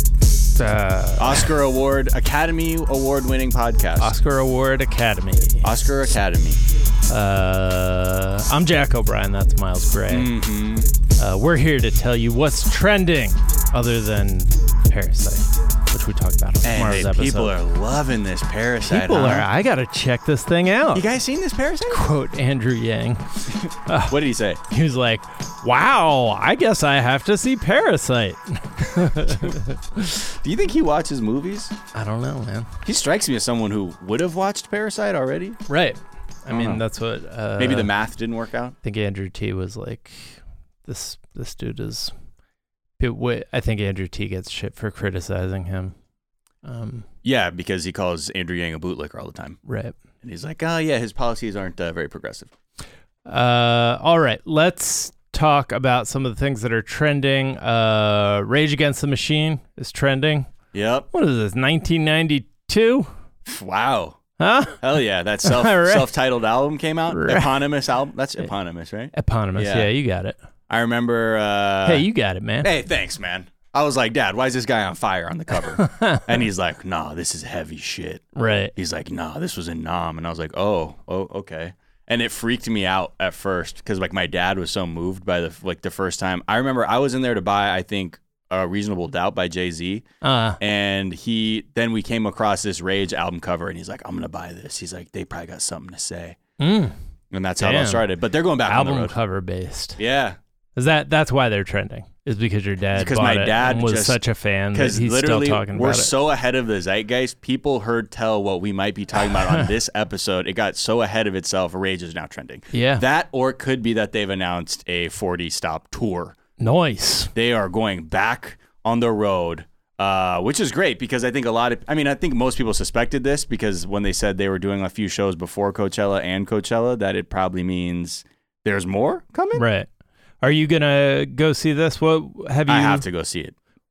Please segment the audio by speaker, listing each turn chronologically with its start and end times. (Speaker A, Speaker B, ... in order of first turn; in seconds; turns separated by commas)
Speaker A: 0.6-1.5, Speaker B: 1.2-4.1, Speaker A: 4.0-5.7, Speaker B: 5.6-6.6, Speaker A: 7.1-10.3, Speaker B: 10.1-10.9, Speaker A: 11.2-17.5, Speaker B: 16.6-19.5, Speaker A: 18.8-21.1, Speaker B: 20.9-22.0, Speaker A: 21.9-23.2, Speaker A: 23.9-30.3, Speaker B: 24.1-24.6, Speaker B: 30.4-31.7, Speaker A: 31.9-32.7, Speaker B: 32.8-35.6, Speaker A: 35.7-37.9, Speaker B: 36.5-36.8, Speaker B: 37.6-38.7, Speaker A: 38.8-42.1, Speaker A: 43.0-45.9, Speaker A: 46.6-47.0, Speaker B: 47.2-49.6, Speaker A: 49.6-50.0, Speaker B: 50.2-52.5, Speaker A: 53.3-60.5, Speaker B: 60.7-61.1, Speaker A: 61.1-63.1, Speaker B: 63.5-64.2, Speaker A: 64.4-64.8, Speaker B: 64.8-69.9, Speaker A: 65.4-66.1, Speaker A: 67.1-67.5, Speaker A: 69.1-70.4, Speaker B: 70.7-72.1, Speaker A: 71.8-72.7, Speaker B: 72.6-78.2, Speaker A: 75.8-76.3, Speaker A: 78.3-78.7, Speaker B: 78.8-90.0, Speaker A: 90.2-90.6, Speaker B: 90.6-96.4, Speaker A: 96.6-96.9, Speaker B: 97.3-99.1, Speaker A: 97.6-98.0, Speaker A: 98.7-100.0, Speaker B: 100.0-100.4, Speaker A: 100.8-106.1, Speaker B: 102.9-104.2, Speaker B: 104.7-116.4, Speaker A: 109.2-109.7, Speaker A: 112.7-113.0, Speaker A: 116.6-117.3, Speaker B: 117.3-129.6, Speaker A: 129.6-129.9, Speaker A: 130.4-133.0, Speaker B: 132.7-133.5